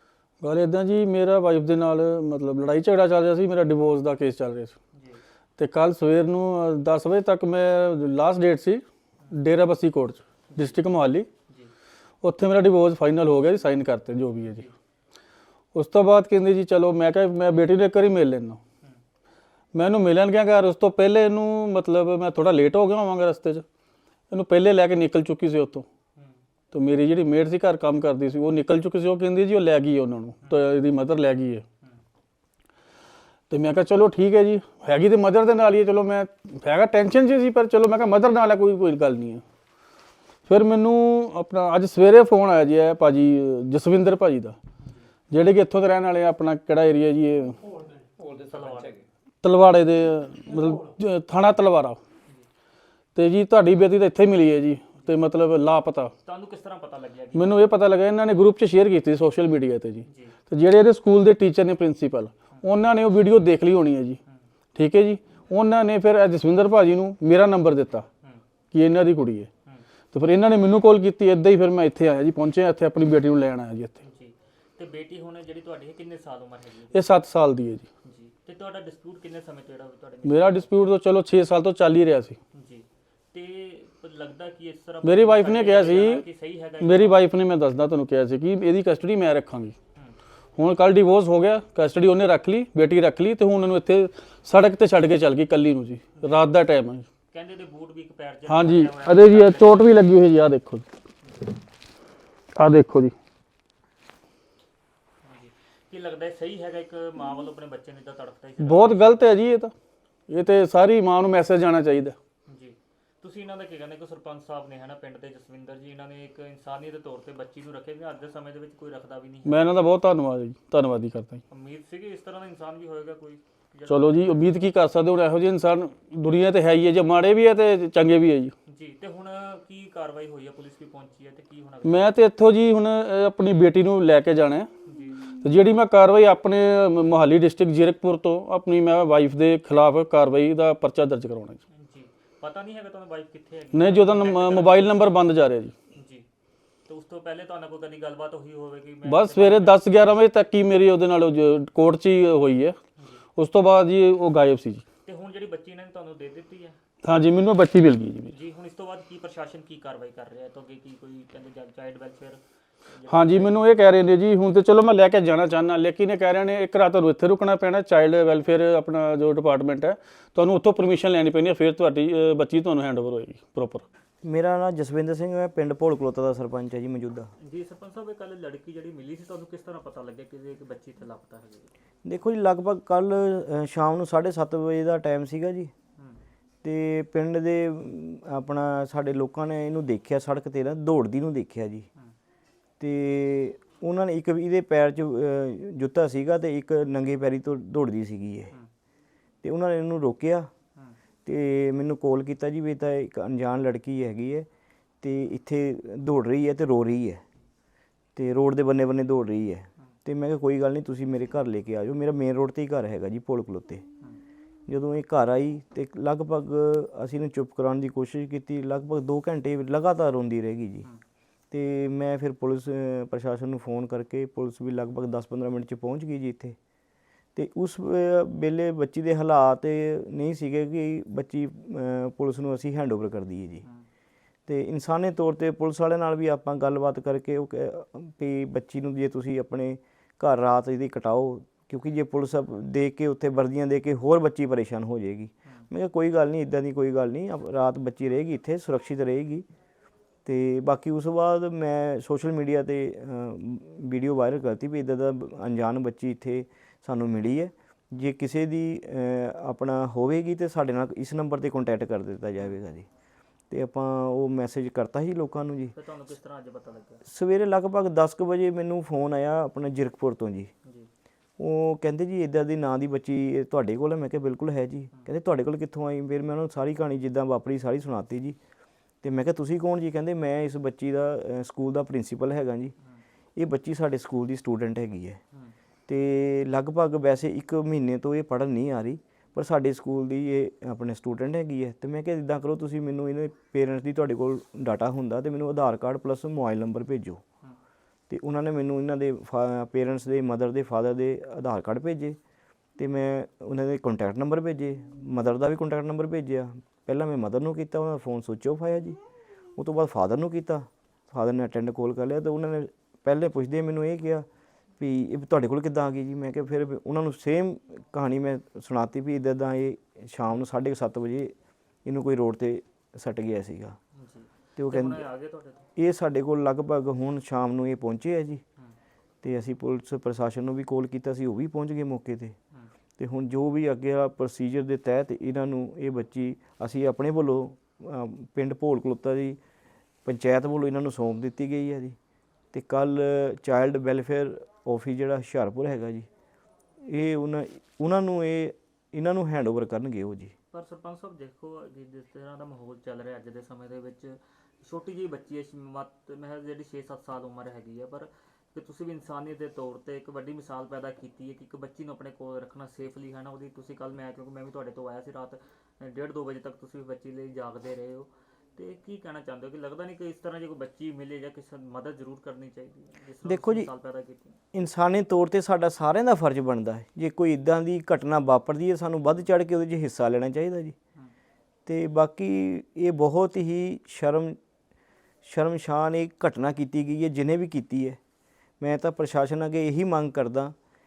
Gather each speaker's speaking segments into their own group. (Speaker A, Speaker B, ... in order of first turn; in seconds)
Speaker A: 0.4-4.7, 5.6-11.3, 12.2-14.7, 15.7-18.6, 19.7-23.6, 24.3-25.9, 26.7-31.6, 33.5-39.4, 40.5-44.5, 45.3-47.5, 49.4-52.0, 53.1-56.1, 57.3-64.2, 64.8-68.1, 68.7-69.5, 70.1-74.0, 76.9-77.9, 80.2-82.4, 85.0-86.2, 86.8-89.7, 90.6-97.0, 98.5-100.8, 102.5-103.1, 108.6-109.7, 110.3-112.2, 119.4-121.4, 123.9-128.5, 131.8-134.7, 135.4-141.6, 143.7-145.7, 149.0-152.8, 153.3-154.8, 157.0-158.3, 163.1-173.8
Speaker B: 4.9-5.2, 10.5-10.8, 30.4-30.7, 48.2-49.0, 56.2-57.7, 60.0-60.4, 74.0-77.0, 78.0-80.8, 82.5-87.2, 97.3-100.0, 105.2-109.3, 112.5-119.8, 121.5-124.6, 128.7-132.1, 134.8-135.4, 141.7-145.1, 145.9-146.2, 146.9-149.8, 155.0-156.8, 158.3-163.6, 177.4-181.7, 265.7-267.0, 324.0-325.7, 350.5-374.4
Speaker C: 174.2-177.3, 182.0-185.7, 186.6-191.8, 192.8-198.5, 199.4-200.5, 201.2-204.5, 205.0-207.2, 208.2-213.8, 214.7-220.9, 221.5-226.6, 227.3-233.6, 234.5-249.4, 250.2-262.9, 263.5-265.7, 267.0-270.5, 271.4-278.4, 279.0-282.7, 283.4-285.2, 285.9-297.2, 298.1-302.2, 302.8-309.0, 309.6-314.2, 314.8-321.3, 321.8-323.8, 324.6-325.0, 325.8-328.4, 329.2-332.3, 333.0-339.4, 340.0-341.9, 342.5-346.1, 346.8-350.3, 373.2-373.7, 374.5-380.7, 381.6-384.4, 385.2-388.0, 388.6-390.5